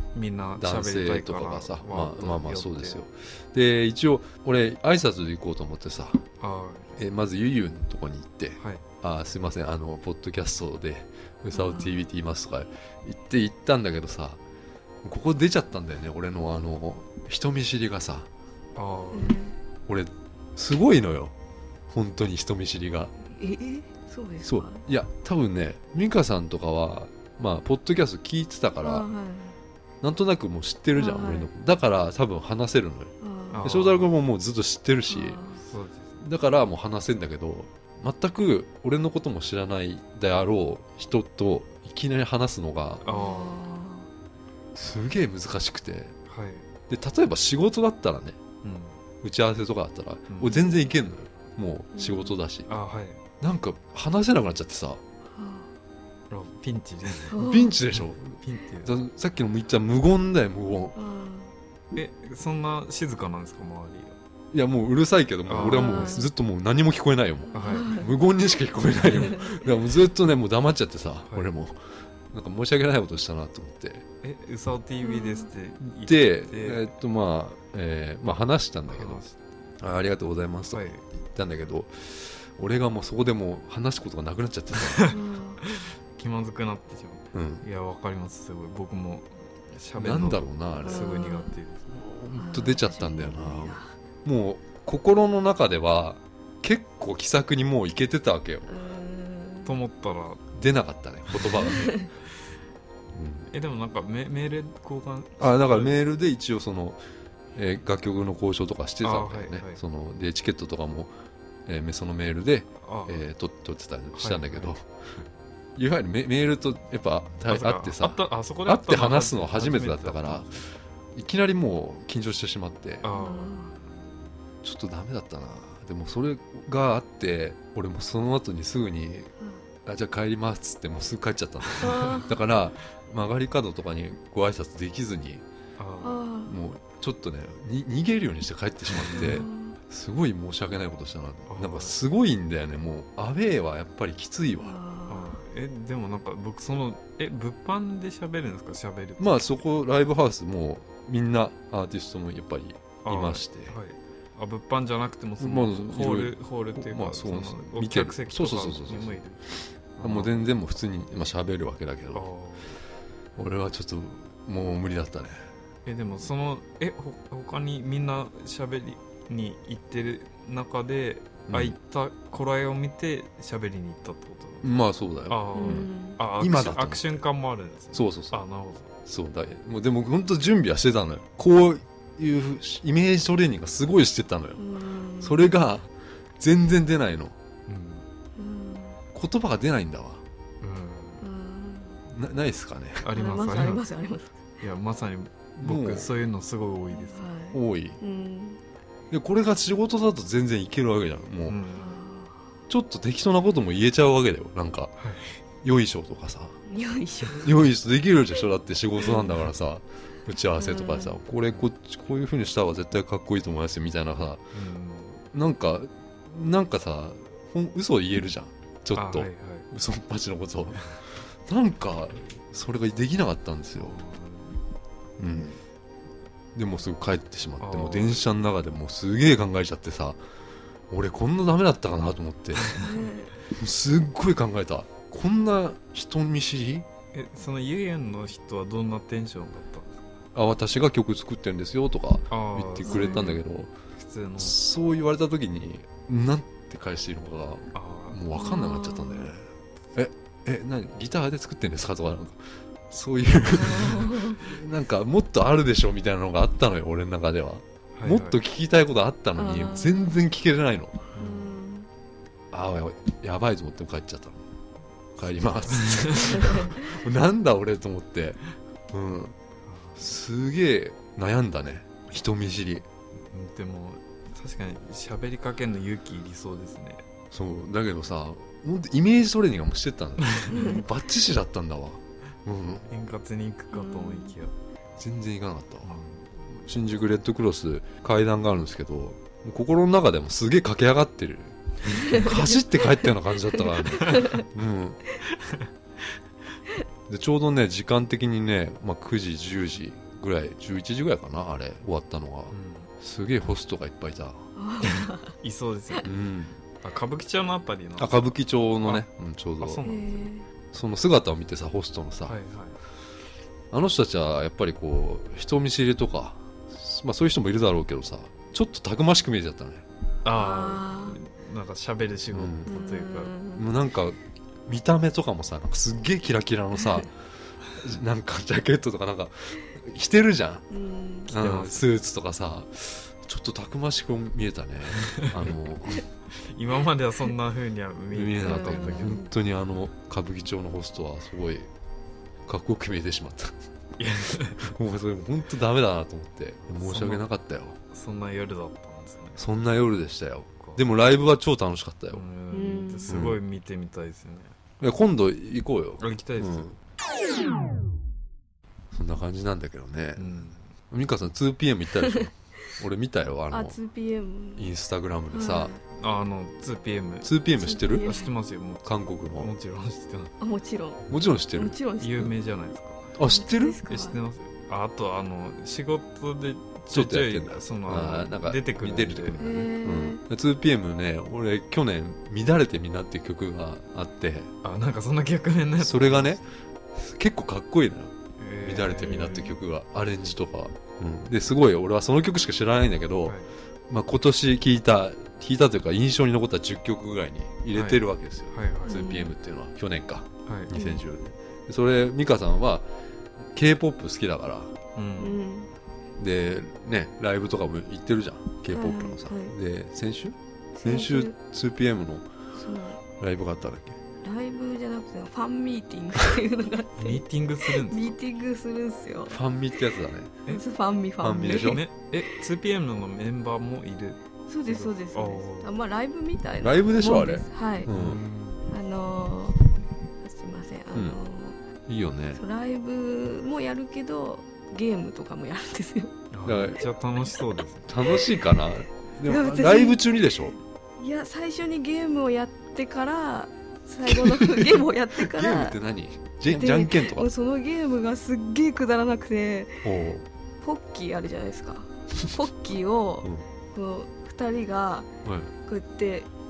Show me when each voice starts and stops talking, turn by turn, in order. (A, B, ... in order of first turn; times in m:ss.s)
0:00.1-0:03.0 A
0:00.6-0:06.2 B
0:06.4-0:07.0 A
0:07.0-0:14.4 B
0:08.6-0:08.8 A
0:11.5-0:12.1 C
0:15.0-0:18.3 B
0:18.8-0:19.4 A
0:19.1-0:19.6 C
0:19.9-0:21.3 B
0:21.9-0:23.1 B
0:23.3-0:24.8 C
0:24.4-0:29.0 B
0:28.8-0:29.6 C
0:30.0-0:35.4 B
0:31.0-0:31.5 C
0:33.2-0:33.6 C
0:33.5-0:34.1 A
0:35.1-0:35.6 C
0:35.6-0:36.2 A
0:36.2-0:43.0 B
0:43.0-0:43.6 A
0:43.0-0:44.1 C
0:44.7-0:46.2 B
0:46.3-0:46.6 A
0:46.9-0:48.4 B
0:48.6-0:49.0 A
0:49.2-0:52.7 B
0:50.3-0:50.6 A
0:51.9-0:52.3 C
0:52.7-0:53.2 A
0:53.4-0:55.0 B
0:55.3-0:55.7 C
0:56.3-0:57.4 A
0:57.3-0:57.8 C
0:57.4-1:01.0 B
0:57.9-0:58.9 A
1:00.9-1:01.5 C
1:01.9-1:04.2 A
1:04.5-1:14.0 B
1:05.5-1:06.2 A
1:05.6-1:06.3 C
1:07.5-1:08.1 C
1:07.5-1:08.1 A
1:09.0-1:09.5 A
1:09.1-1:09.5 C
1:11.2-1:11.5 A
1:14.2-1:16.9 A
1:15.0-1:15.5 C
1:15.8-1:19.2 B
1:18.9-1:19.4 A
1:19.8-1:25.1 B
1:20.7-1:21.0 A
1:24.7-1:32.0 A
1:25.1-1:25.6 C
1:27.3-1:27.6 B
1:30.0-1:31.1 B
1:30.8-1:31.5 C
1:31.9-1:38.7 B
1:32.3-1:33.9 C
1:38.7-1:39.8 C
1:39.6-1:40.6 A
1:40.5-1:42.0 B
1:41.3-1:41.9 A
1:41.6-1:42.1 C
1:43.1-1:43.5 B
1:43.5-1:46.0 A
1:45.4-1:47.0 B
1:47.5-1:51.1 B
1:49.0-1:49.8 A
1:51.6-1:54.9 B
1:52.8-1:53.2 A
1:54.1-1:54.7 A
1:55.8-2:03.1 B
1:57.5-2:00.6 A
2:03.0-2:03.6 A
2:03.1-2:03.8 C
2:04.6-2:09.3 B
2:09.8-2:15.4 B
2:11.7-2:12.2 A
2:11.8-2:12.3 C
2:15.8-2:16.2 A
2:16.0-2:16.5 C
2:16.4-2:24.8 B
2:18.9-2:19.4 A
2:19.1-2:19.8 C
2:21.5-2:21.9 A
2:24.6-2:25.4 C
2:25.1-2:29.6 A
2:29.2-2:33.8 B
2:33.0-2:39.4 A
2:35.4-2:39.2 B
2:40.0-2:40.4 A
2:40.0-2:42.3 B
2:42.1-2:42.8 A
2:43.4-2:45.4 B
2:45.8-2:54.7 A
2:51.5-2:51.8 B
2:54.6-2:57.2 B
2:55.3-2:58.9 A
2:55.5-2:56.2 C
2:57.9-2:58.4 B
2:59.0-3:04.6 B
3:04.6-3:05.5 C
3:05.2-3:07.4 B
3:07.7-3:08.0 A
3:08.4-3:09.0 C
3:09.1-3:10.2 B
3:10.6-3:11.2 A
3:11.2-3:12.0 C
3:12.1-3:13.0 B
3:13.0-3:13.8 A
3:13.1-3:14.4 C
3:14.6-3:17.3 A
3:15.6-3:16.1 B
3:16.9-3:18.6 C
3:17.5-3:18.0 B
3:19.1-3:21.6 B
3:21.4-3:22.0 A
3:21.8-3:22.4 C
3:22.7-3:24.9 B
3:25.0-3:25.4 A
3:25.6-3:26.6 B
3:26.7-3:27.6 C
3:27.3-3:34.4 B
3:29.0-3:29.3 C
3:30.6-3:31.2 C
3:34.5-3:35.2 A
3:35.3-3:44.0 B
3:38.9-3:39.7 A
3:43.8-3:44.6 A
3:45.2-3:45.6 B
3:46.5-3:50.2 B
3:47.6-3:48.2 A
3:50.9-3:52.8 B
3:52.6-3:53.0 A
3:52.8-3:53.3 C
3:53.5-3:56.9 B
3:57.1-4:00.1 A
4:00.3-4:03.7 B
4:02.3-4:04.5 A
4:02.8-4:03.4 C
4:04.4-4:21.1 B
4:07.7-4:08.2 A
4:08.3-4:09.3 C
4:13.5-4:14.4 C
4:17.9-4:18.4 A
4:19.4-4:20.1 C
4:21.1-4:21.5 A
4:21.2-4:21.9 C
4:22.5-4:24.4 B
4:25.2-4:29.3 B
4:25.7-4:26.7 A
4:29.6-4:30.0 A
4:30.0-4:32.9 B
4:33.2-4:37.0 A
4:37.3-4:42.9 B
4:40.2-4:40.9 A
4:40.5-4:40.8 C
4:42.9-4:44.5 A
4:43.7-4:44.3 C
4:45.0-4:46.0 B
4:45.8-4:46.2 A
4:46.5-4:55.0 B
4:52.1-4:52.9 C
4:53.6-4:54.4 C
4:54.0-4:54.4 A
4:55.3-4:55.7 A
4:57.1-5:04.4 B
5:02.5-5:02.9 A
5:04.6-5:05.3 C
5:04.8-5:06.1 A
5:06.0-5:06.6 B
5:06.8-5:08.2 A
5:08.0-5:09.8 B
5:09.6-5:10.3 A
5:09.8-5:10.4 C
5:10.7-5:12.4 B
5:12.2-5:12.8 A
5:13.7-5:19.8 B
5:20.2-5:23.3 A
5:20.3-5:21.2 C
5:22.3-5:22.7 B
5:22.7-5:23.7 C
5:23.6-5:27.1 B
5:27.7-5:30.6 B
5:30.7-5:31.3 C
5:31.3-5:31.9 A
5:31.3-5:36.0 B
5:35.0-5:35.5 A
5:36.3-5:39.2 A
5:38.1-5:41.7 B
5:38.4-5:39.3 C
5:42.5-5:43.5 B
5:44.0-5:44.6 A
5:44.6-5:47.8 B
5:46.8-5:47.3 A
5:47.9-5:49.5 A
5:49.4-5:52.2 B
5:52.1-5:54.6 A
5:52.5-5:53.1 C
5:53.1-5:53.4 B
5:54.8-5:56.7 B
5:56.0-5:56.7 A
5:58.9-6:03.8 B
6:00.2-6:00.6 A
6:03.5-6:04.7 C
6:04.6-6:05.7 B
6:05.3-6:05.8 C
6:05.9-6:07.3 A
6:07.2-6:08.1 B
6:07.6-6:08.3 C
6:07.9-6:10.3 A
6:08.8-6:09.5 B
6:10.4-6:12.3 C
6:11.1-6:11.8 B
6:12.0-6:13.1 A
6:13.2-6:13.8 B
6:13.2-6:14.2 C
6:13.8-6:19.4 A
6:16.9-6:24.5 B
6:19.4-6:20.2 C
6:24.6-6:26.4 A
6:25.8-6:33.4 B
6:28.4-6:29.6 A
6:33.9-6:42.9 B
6:37.7-6:39.0 A
6:38.8-6:39.3 C
6:40.4-6:40.7 A
6:40.7-6:41.0 C
6:43.4-6:44.7 B
6:44.9-6:45.4 A
6:45.2-6:45.7 C
6:46.2-6:52.3 B
6:48.7-6:49.5 C
6:50.8-6:51.3 C
6:52.5-6:53.0 C
6:53.2-6:54.0 B
6:54.2-6:59.4 C
6:57.0-6:58.2 A
6:59.3-7:00.3 B
7:00.5-7:01.8 C
7:01.2-7:01.8 B
7:01.4-7:05.8 A
7:04.5-7:07.9 C
7:06.6-7:08.2 B
7:07.9-7:08.7 A
7:08.7-7:11.6 C
7:11.9-7:12.4 B
7:12.4-7:16.2 C
7:16.3-7:17.9 A
7:16.4-7:16.8 B
7:17.9-7:20.6 B
7:19.2-7:20.0 C
7:21.0-7:25.8 C
7:24.0-7:27.3 B
7:26.5-7:29.9 C
7:29.8-7:30.2 B
7:30.6-7:35.1 C
7:35.2-7:35.5 B
7:35.6-7:36.3 C